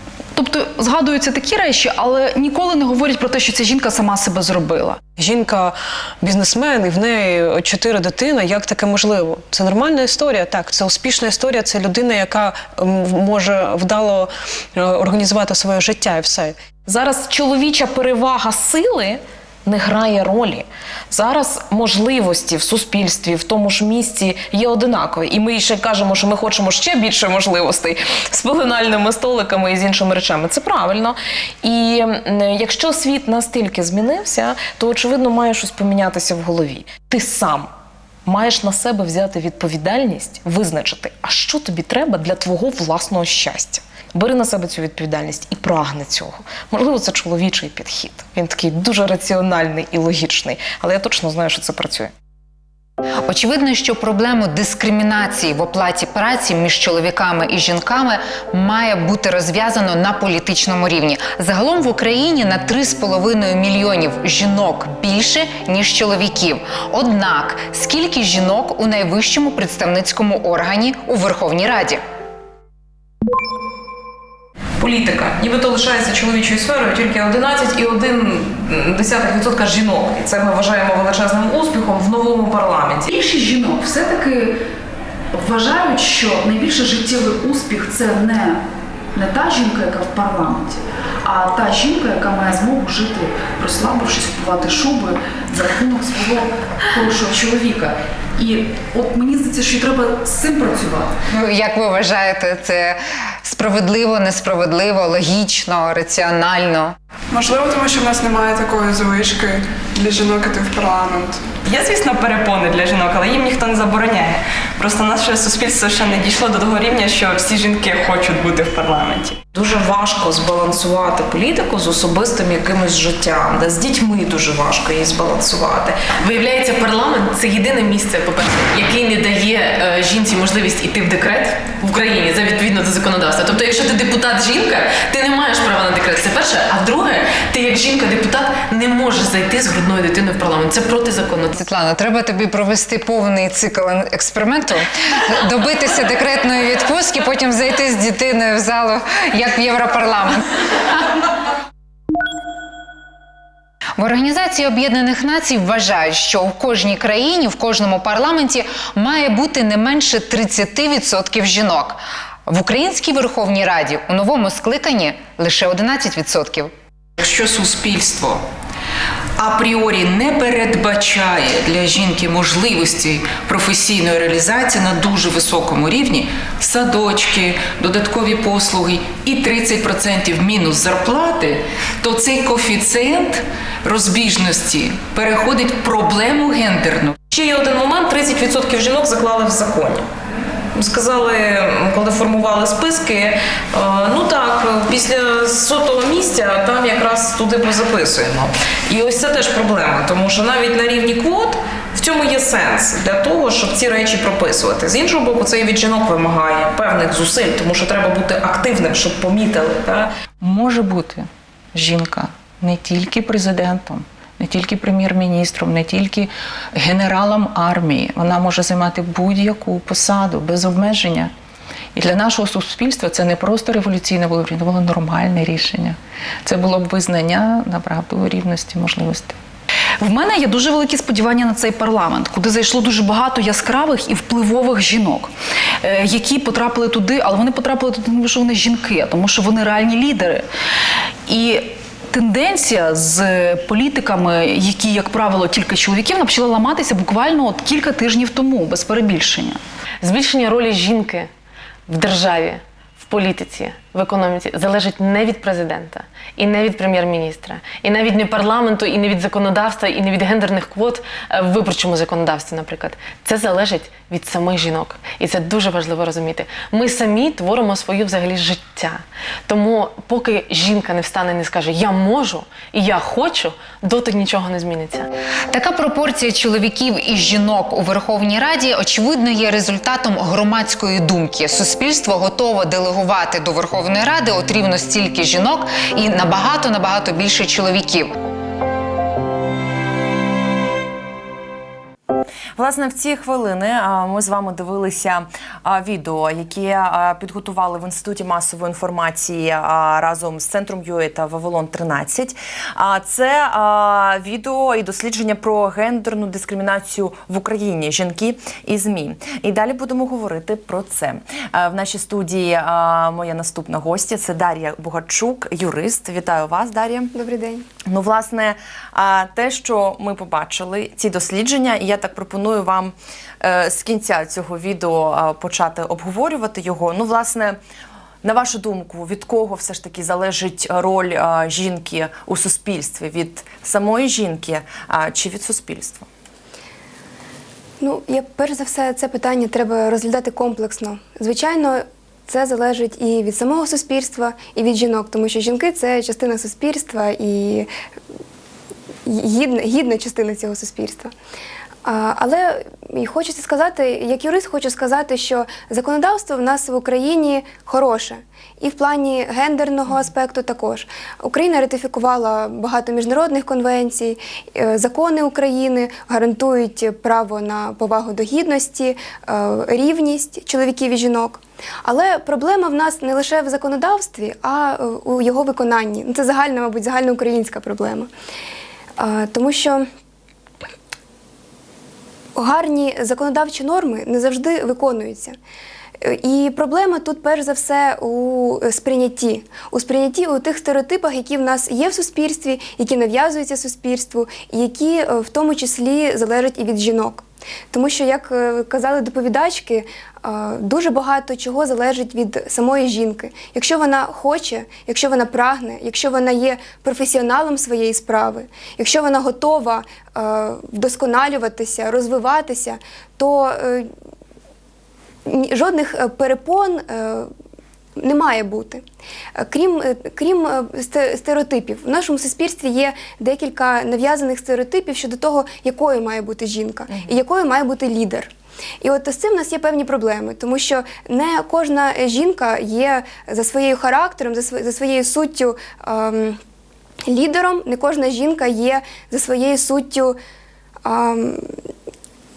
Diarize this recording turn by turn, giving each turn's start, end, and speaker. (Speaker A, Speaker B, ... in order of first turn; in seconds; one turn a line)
Speaker A: 0.3-5.0
Speaker B: 5.2-16.6
Speaker C: 16.9-37.7
Speaker C: 38.2-52.1
Speaker D: 53.2-72.0
Speaker C: 74.8-83.1
Speaker A: 83.1-84.6
Speaker A: 85.3-88.6
Speaker A: 89.1-101.2
Speaker D: 101.3-106.9
Speaker E: 107.3-111.5
Speaker F: 111.6-119.4
Speaker C: 119.5-126.0
Speaker G: 126.2-141.6
Speaker D: 141.5-150.7
Speaker D: 154.0-166.7
Speaker H: 167.2-168.4
Speaker H: 169.4-187.2
Speaker C: 187.3-190.1
Speaker C: 190.8-210.1
Speaker H: 210.4-221.3
Speaker H: 221.9-229.4
Speaker A: 230.0-235.3
Speaker A: 235.8-240.4
Speaker A: 241.3-249.6
Speaker G: 250.0-251.3
Speaker G: 251.9-275.1
Speaker D: 275.5-288.1
Speaker I: 292.6-317.1
Speaker J: 317.1-317.7
Speaker I: 317.9-327.6
Speaker I: 328.2-336.1
Speaker J: 337.8-347.7
Speaker J: 349.1-351.1
Speaker J: 351.8-378.1
Speaker J: 379.0-379.9
Speaker J: 382.4-385.4
Speaker J: 386.0-413.9
Speaker J: 415.2-417.3
Speaker J: 418.0-418.8
Speaker J: 419.4-428.3
Speaker J: 428.8-436.4
Speaker J: 437.1-440.2
Speaker J: 440.8-441.6